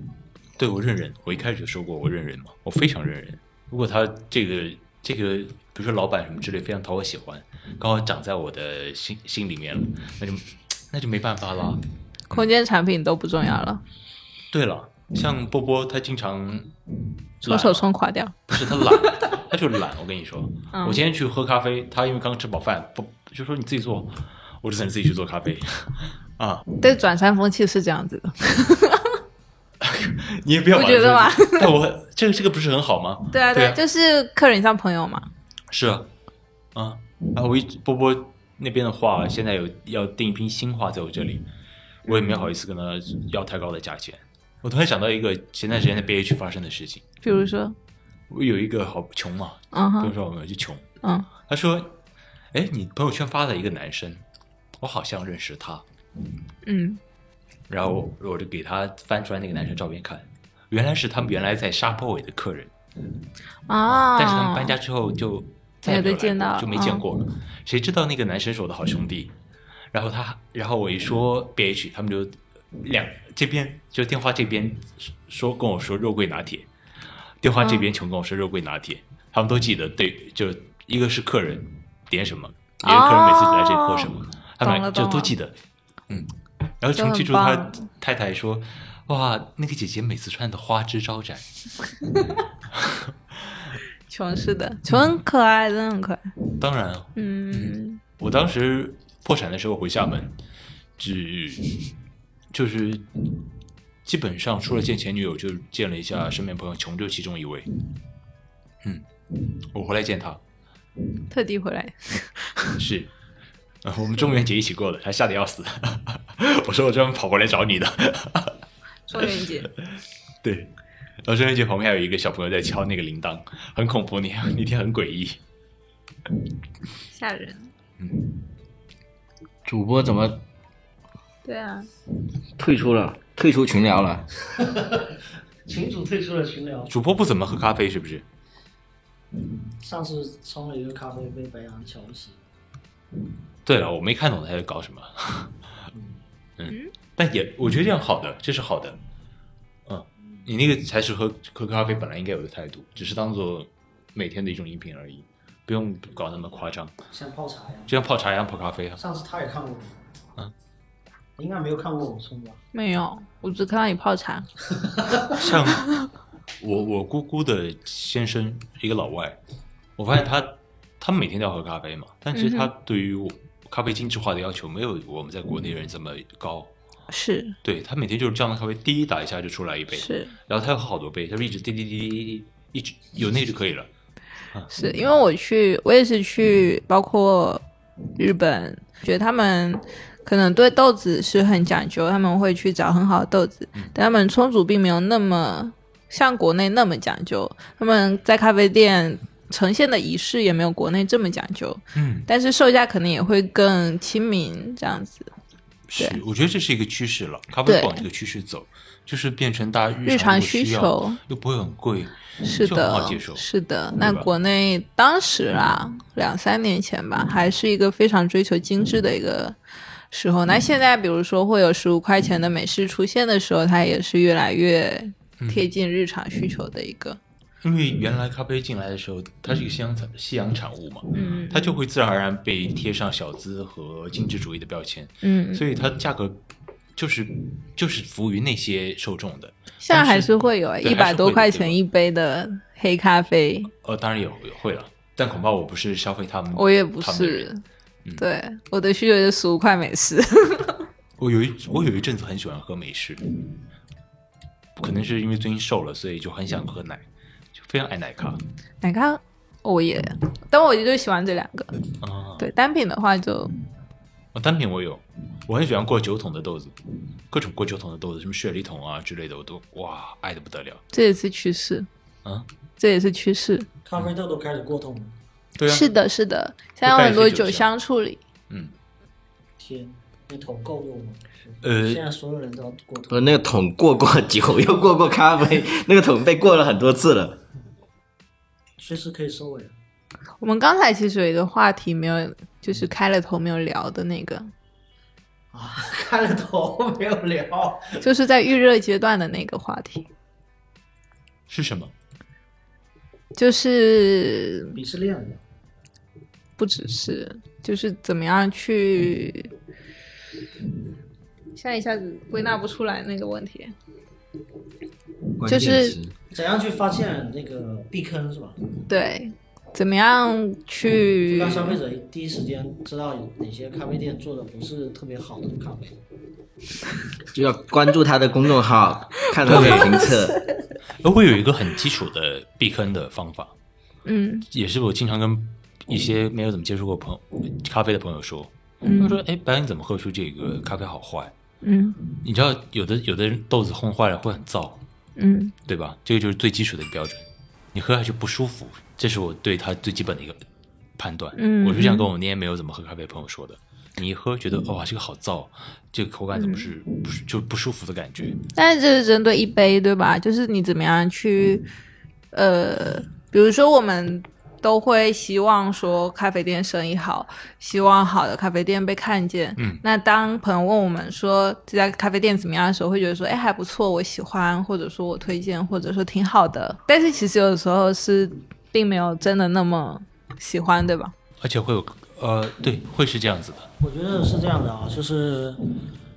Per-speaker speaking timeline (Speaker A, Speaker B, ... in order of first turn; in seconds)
Speaker A: 0.6-12.5, 14.5-16.7, 17.4-17.9, 18.5-26.6, 29.8-33.8, 35.7-36.1, 36.7-41.5, 42.1-47.0, 48.3-50.8, 51.4-52.0, 52.5-54.2, 54.8-55.8, 57.7-62.7, 63.9-69.3, 69.9-76.7, 77.4-85.5, 86.1-91.4, 92.7-93.6, 94.9-95.2, 96.6-100.4, 101.0-101.7, 102.5-103.1, 104.0-107.7, 109.7-110.4, 112.8-113.1, 113.8-118.6, 119.2-120.7, 121.2-125.4, 128.0-128.3, 136.9-138.2, 143.7-145.6, 146.6-149.0, 149.9-156.9, 157.9-159.0, 165.3-165.9, 166.6-169.4, 170.0-176.7, 177.6-183.9, 201.9-202.3, 205.9-213.4, 214.0-214.3, 225.4-225.7, 227.6-236.4, 236.9-241.8, 243.8-247.5, 251.2-253.2, 254.8-258.4, 262.0-262.5, 264.3-266.8, 267.3-270.8, 275.6-275.9, 276.8-277.7, 281.6-282.0, 301.5-301.9, 329.4-330.0, 331.0-333.5, 334.5-341.3, 342.2-344.8, 345.6-350.4, 351.0-358.4, 369.6-369.8, 381.4-383.7
Speaker B: 12.3-13.8, 17.4-19.2, 20.7-21.0, 26.8-29.1, 30.7-31.7, 33.3-35.3, 42.1-42.5, 47.2-47.8, 49.7-50.1, 51.0-51.3, 56.6-57.0, 63.7-64.8, 65.8-67.0, 77.6-77.9, 82.8-85.3, 86.9-87.8, 94.1-96.3, 97.1-98.0, 111.3-112.7, 119.1-119.7, 127.1-127.7, 131.4-131.9, 162.7-164.5, 172.3-172.7, 177.1-177.6, 179.9-180.3, 184.7-187.6, 188.2-205.3, 207.7-208.0, 210.0-211.2, 212.4-219.6, 220.1-227.2, 231.1-231.8, 235.2-235.6, 239.8-243.7, 246.5-247.6, 248.2-250.8, 258.8-261.7, 262.4-263.5, 270.9-271.9, 272.8-273.7, 275.6-278.2, 290.4-294.5, 298.0-300.1, 303.3-304.8, 306.6-309.5, 311.5-313.7, 315.5-316.0, 318.9-321.8, 329.5-330.1, 334.0-334.5, 338.8-339.2, 341.6-342.0, 345.2-345.5, 351.4-352.1, 356.3-356.7, 358.5-361.7, 362.3-381.1
Speaker C: 129.6-130.4, 132.6-134.3, 283.1-287.4, 315.4-316.1, 327.3-330.4
Speaker D: 134.6-136.9, 139.4-142.4, 145.9-146.2, 157.1-157.9, 159.0-160.0, 161.4-162.6, 164.9-165.4, 273.8-275.1, 279.6-283.3, 288.8-289.7, 295.5-298.0, 304.7-305.4, 316.3-318.6, 321.3-326.0, 383.8-385.6